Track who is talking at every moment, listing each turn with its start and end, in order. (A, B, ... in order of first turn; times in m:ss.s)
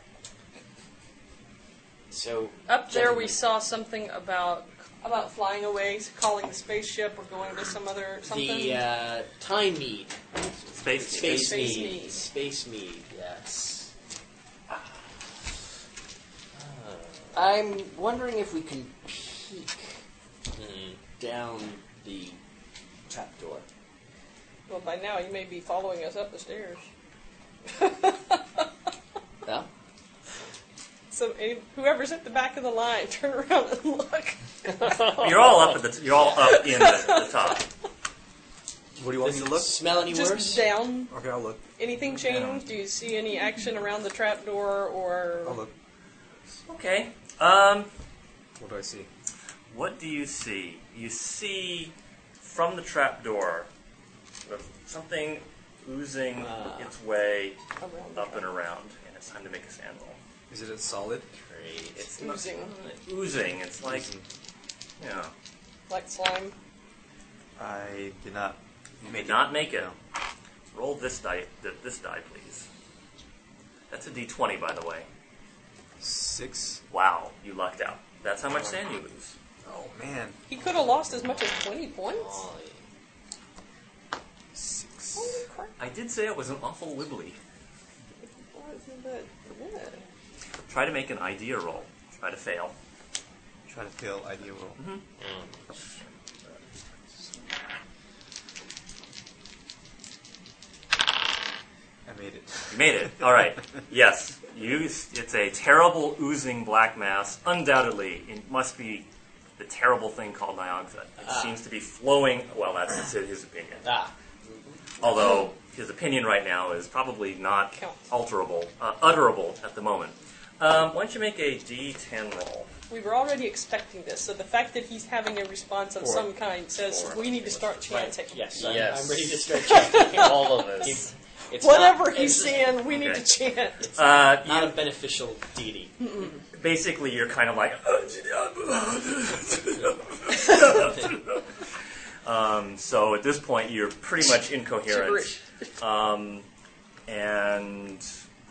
0:02.1-0:03.4 A
0:02.7-0:08.8 B
0:08.2-0:13.1 A
0:10.7-0:11.8 C
0:11.2-0:12.3 B
0:13.1-0:13.9 D
0:16.5-0:17.4 D
0:17.3-0:20.0 A
0:20.5-0:21.0 D
0:21.2-0:22.4 A
0:23.1-0:23.6 A
0:24.7-0:26.8 B
0:27.7-0:28.7 B
0:29.4-0:29.7 A
0:31.1-0:35.3 B
0:34.8-0:35.6 D
0:35.2-0:37.6 C
0:36.3-0:37.6 B
0:39.0-0:39.8 E
0:39.2-0:40.7 A
0:40.0-0:41.1 B
0:41.1-0:41.6 E
0:41.8-0:45.6 B
0:42.2-0:42.6 C
0:45.4-0:45.7 E
0:46.6-0:47.9 C
0:48.6-0:49.1 E
0:49.7-0:53.7 C
0:54.4-0:57.6 C
0:56.4-0:56.9 A
0:57.8-0:58.5 B
0:58.1-1:00.2 C
1:00.5-1:01.3 E
1:01.4-1:02.1 D
1:02.0-1:04.1 C
1:02.2-1:02.8 B
1:03.8-1:04.2 E
1:05.0-1:05.3 C
1:05.9-1:06.6 B
1:07.6-1:09.9 E
1:09.0-1:09.9 C
1:10.7-1:12.7 C
1:13.9-1:15.1 C
1:16.0-1:16.8 E
1:16.9-1:19.3 C
1:19.6-1:20.4 E
1:20.5-1:22.4 B
1:21.4-1:22.8 D
1:24.5-1:25.4 E
1:25.1-1:25.8 B
1:25.8-1:27.4 C
1:28.2-1:30.0 B
1:30.7-1:32.7 C
1:33.7-1:34.8 E
1:34.8-1:35.0 C
1:35.2-1:35.7 D
1:42.0-1:43.2 E
1:42.7-1:53.9 C
1:51.2-1:51.6 A
1:53.8-1:54.1 A
1:55.0-2:02.7 C
1:57.7-1:58.1 B
2:02.9-2:08.8 B
2:06.0-2:06.3 E
2:07.8-2:12.8 A
2:08.5-2:11.0 D
2:09.6-2:11.0 B
2:11.6-2:13.8 B
2:12.8-2:13.3 C
2:13.8-2:16.0 A
2:13.9-2:14.8 C
2:16.0-2:16.4 B
2:16.5-2:21.6 C
2:22.2-2:26.5 C
2:24.8-2:25.7 B
2:27.1-2:28.1 C